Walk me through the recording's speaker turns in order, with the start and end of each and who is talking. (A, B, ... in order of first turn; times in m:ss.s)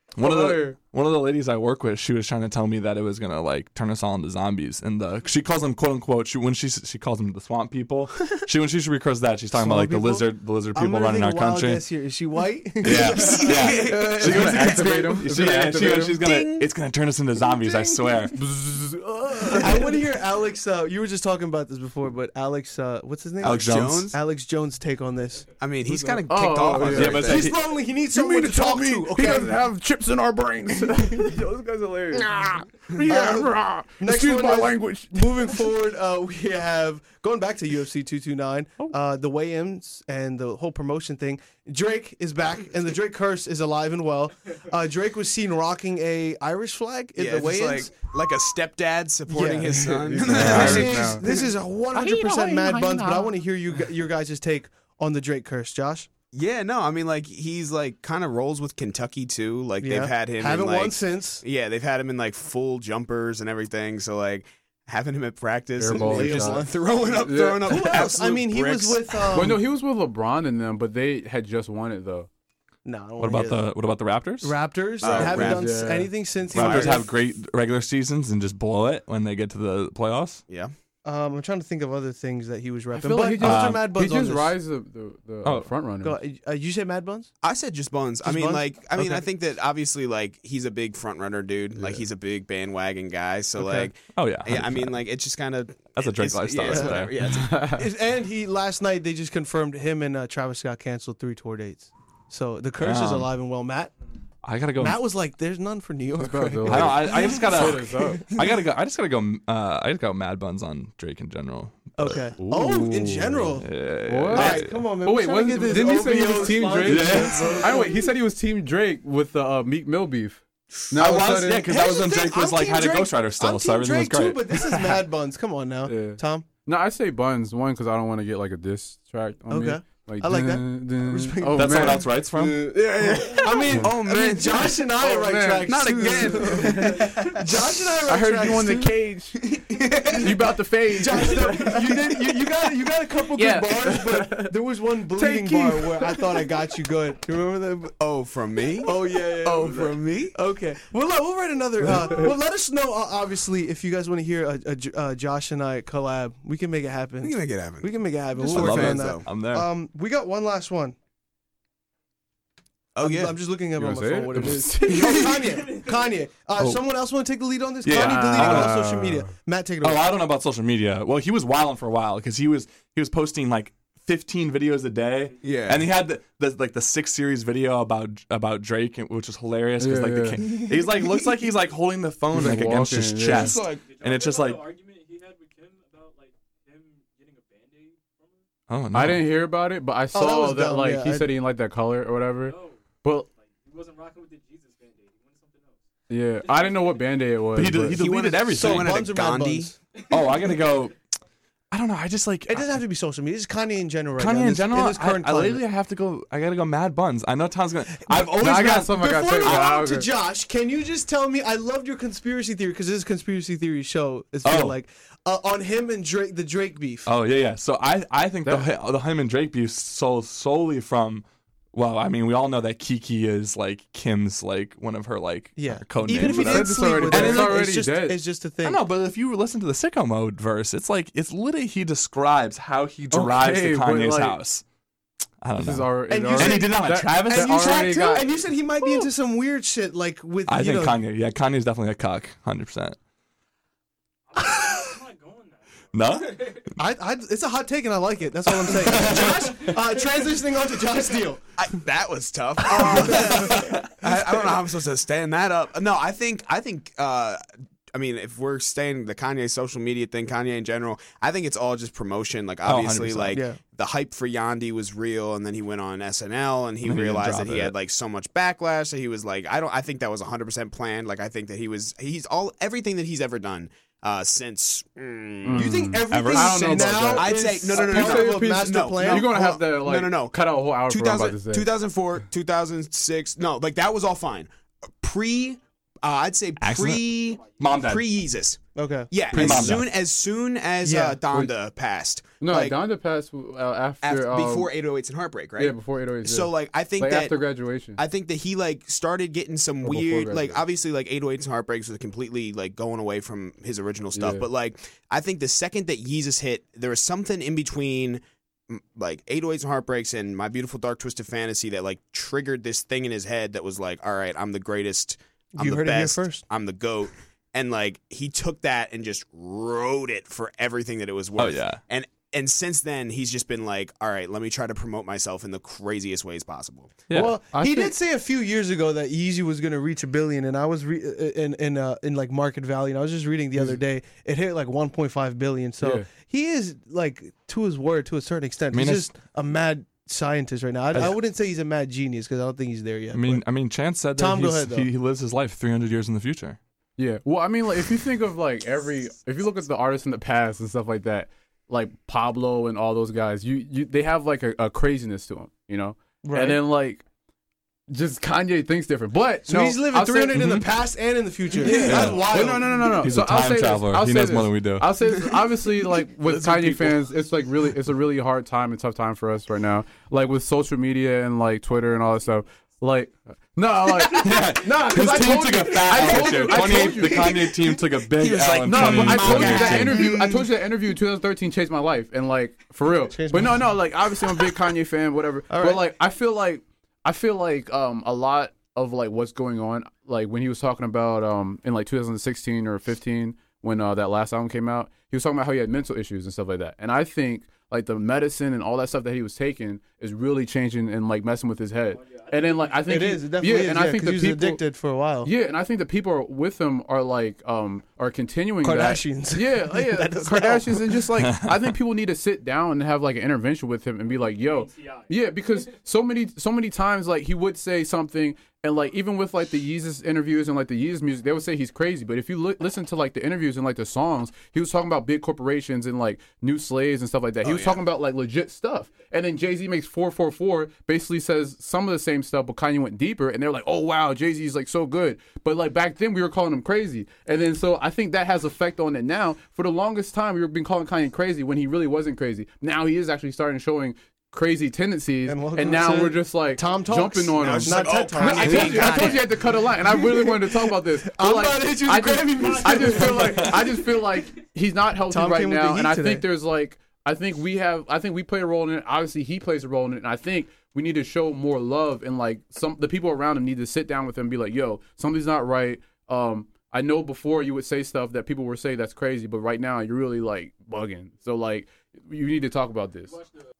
0:00.2-0:11.8 A
0:00.2-0:00.8 B
0:09.5-0:13.6 C
0:12.8-0:18.4 A
0:12.8-0:16.7 D
0:13.4-0:16.2 B
0:18.3-0:19.9 B
0:19.5-0:25.5 C
0:23.4-0:24.2 D
0:23.4-0:24.1 A
0:25.6-0:27.5 D
0:25.8-0:27.4 B
0:26.8-0:27.6 A
0:27.0-0:29.6 C
0:28.1-0:35.6 B
0:33.0-0:48.0 C
0:47.2-0:51.5 D
0:49.3-0:56.1 C
0:49.6-0:51.3 B
0:50.3-0:51.0 A
0:51.9-0:53.3 B
0:56.3-1:09.6 D
0:59.8-1:01.4 C
1:05.8-1:08.0 B
1:05.9-1:06.8 C
1:07.6-1:09.6 C
1:09.3-1:12.3 B
1:12.8-1:13.6 C
1:13.2-1:14.6 A
1:14.4-1:17.1 C
1:15.0-1:15.7 D
1:15.1-1:16.1 B
1:16.5-1:20.4 A
1:16.5-1:17.1 D
1:21.0-1:24.5 C
1:22.9-1:26.2 B
1:23.4-1:23.9 A
1:25.4-1:25.7 A
1:26.0-1:27.3 C
1:27.4-1:37.6 D
1:28.2-1:29.2 C
1:33.6-1:35.0 A
1:36.0-1:37.2 A
1:36.6-1:37.1 C
1:37.2-1:37.9 B
1:37.7-1:43.9 C
1:42.8-1:43.3 A
1:44.4-1:45.0 A
1:44.8-1:47.7 C
1:46.2-1:48.3 B
1:46.6-1:52.3 A
1:52.0-1:53.7 C
1:52.4-2:01.7 B
1:53.6-1:54.8 A
1:54.3-1:58.0 C
1:56.8-1:57.6 A
2:00.9-2:04.7 A
2:01.1-2:06.5 C
2:05.8-2:12.1 B
2:09.5-2:12.1 C
2:11.5-2:12.7 A
2:12.4-2:14.9 D
2:13.0-2:13.9 B
2:13.2-2:18.9 C
2:15.0-2:17.2 B
2:15.6-2:17.7 D
2:18.1-2:22.1 B
2:19.4-2:20.5 D
2:21.0-2:28.0 C
2:23.3-2:24.5 B
2:25.1-2:26.5 B
2:28.0-2:30.4 D
2:28.8-2:41.0 C
2:31.9-2:32.1 B
2:37.2-2:39.3 D
2:38.4-2:39.7 A
2:43.0-2:43.4 D
2:43.0-2:50.0 C
2:43.8-2:45.4 B
2:44.9-2:45.3 D
2:45.6-2:45.9 E
2:47.8-2:48.8 A
2:47.9-2:49.3 B
2:49.8-3:04.7 A
2:55.4-2:55.8 D
2:59.8-3:00.4 B
3:00.5-3:01.2 D
3:02.3-3:03.6 B
3:03.3-3:03.8 D
3:03.8-3:08.4 E
3:08.7-3:09.2 A
3:08.9-3:13.3 B
3:10.1-3:11.3 C
3:12.4-3:12.8 E
3:13.4-3:15.8 E
3:16.1-3:18.0 B
3:16.4-3:17.0 E
3:17.5-3:19.1 A
3:17.9-3:19.7 D
3:18.4-3:19.8 C
3:20.1-3:20.9 A
3:21.7-3:22.8 A
3:22.5-3:25.6 C
3:24.2-3:29.6 A
3:28.1-3:37.1 C
3:28.3-3:30.1 B
3:34.4-3:34.8 A
3:37.1-3:47.6 A
3:45.6-3:48.8 C
3:46.2-3:48.2 B
3:48.6-3:54.6 A
3:53.1-3:54.4 B
3:55.4-3:58.2 A
3:55.6-3:58.3 B
3:56.1-4:01.0 C
4:00.5-4:03.0 A
4:04.3-4:06.7 E
4:04.4-4:04.9 A
4:05.9-4:06.7 A
4:06.8-4:11.4 C
4:08.5-4:09.8 A
4:11.6-4:17.4 D
4:12.7-4:13.7 C
4:12.8-4:14.0 A
4:17.9-4:35.8 D
4:22.6-4:23.4 A
4:23.3-4:23.6 C
4:26.8-4:27.8 A
4:35.4-4:41.7 B
4:35.5-4:39.6 C
4:36.1-4:36.7 A
4:36.7-4:44.5 D
4:45.0-4:48.6 D
4:46.6-4:48.1 A
4:48.8-4:49.1 C
4:49.1-4:52.8 D
4:49.3-4:49.8 B
4:49.3-4:49.9 A
4:50.8-4:51.2 C
4:52.4-4:54.7 B
4:54.0-5:27.1 D
4:55.6-4:58.0 B
4:59.8-5:00.6 B
5:04.1-5:04.5 B
5:15.6-5:16.4 C
5:21.4-5:21.8 A
5:27.1-5:27.4 A
5:27.1-5:43.4 C
5:27.1-5:27.9 B
5:35.8-5:36.1 B
5:38.7-5:39.1 A
5:43.1-5:46.6 A
5:44.2-5:44.9 C
5:47.0-5:57.0 B
5:56.2-5:56.6 C
5:57.9-6:00.6 B
5:59.5-6:02.9 C
6:00.3-6:00.6 A
6:01.6-6:02.8 D
6:01.6-6:17.5 B
6:01.8-6:02.2 A
6:03.0-6:04.9 A
6:06.3-6:07.0 D
6:13.9-6:20.1 A
6:14.6-6:16.8 C
6:16.3-6:20.4 D
6:18.6-6:44.6 B
6:19.3-6:20.3 C
6:23.1-6:23.7 C
6:25.5-6:25.8 C
6:42.0-6:43.0 E
6:42.9-6:45.3 C
6:45.2-7:53.2 B
6:48.6-6:51.0 C
6:51.2-6:51.8 A
6:54.6-6:55.0 E
7:07.4-7:07.8 D
7:25.3-7:29.3 C
7:27.4-7:29.4 D
7:29.9-7:33.7 C
7:32.4-7:34.3 E
7:33.2-7:33.6 A
7:35.1-7:36.3 C